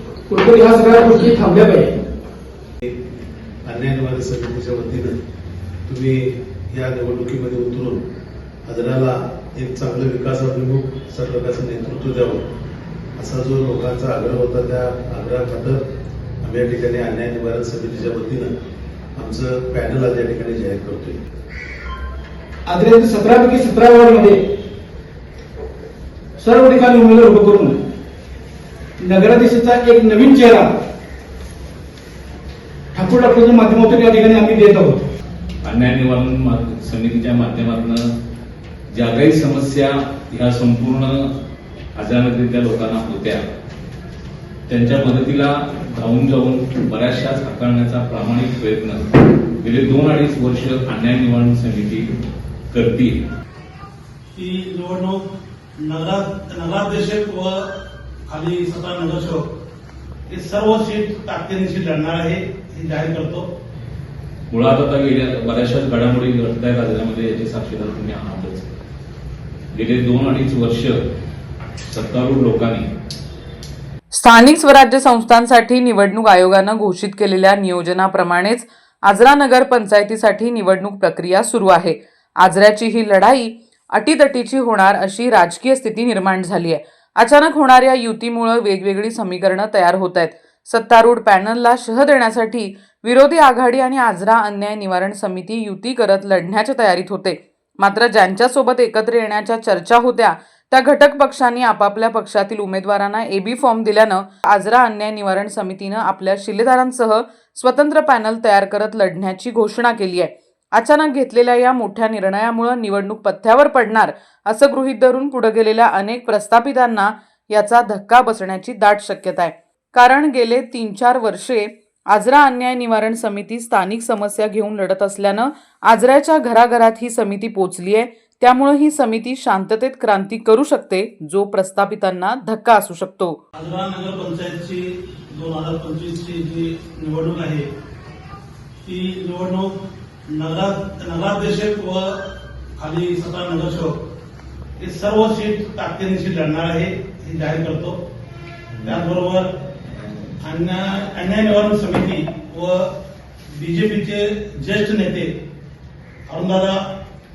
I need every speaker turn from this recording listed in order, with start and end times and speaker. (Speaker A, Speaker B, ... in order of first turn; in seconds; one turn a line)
Speaker A: 0.3-1.9
Speaker B: 3.6-5.1
Speaker B: 5.9-8.0
Speaker B: 8.7-12.4
Speaker B: 13.2-15.8
Speaker B: 16.4-18.5
Speaker B: 19.2-21.2
Speaker A: 22.7-24.4
Speaker A: 26.4-27.8
Speaker A: 29.0-30.7
Speaker A: 32.9-35.0
Speaker C: 35.6-38.0
Speaker C: 38.9-41.3
Speaker C: 42.0-43.4
Speaker C: 44.7-49.0
Speaker C: 49.6-52.1
Speaker C: 52.7-53.2
Speaker D: 54.4-55.3
Speaker D: 55.8-57.6
Speaker D: 58.3-59.5
Speaker D: 60.3-63.5
Speaker C: 64.5-68.7
Speaker C: 69.7-71.0
Speaker C: 71.9-72.9
Speaker E: 74.1-133.4
Speaker D: 133.6-137.7
Speaker D: 138.9-139.7
Speaker D: 140.3-142.2
Speaker D: 142.8-144.0
Speaker D: 144.8-148.0
Speaker D: 148.8-149.5
Speaker D: 150.4-152.9
Speaker D: 153.6-155.3
Speaker D: 156.3-156.8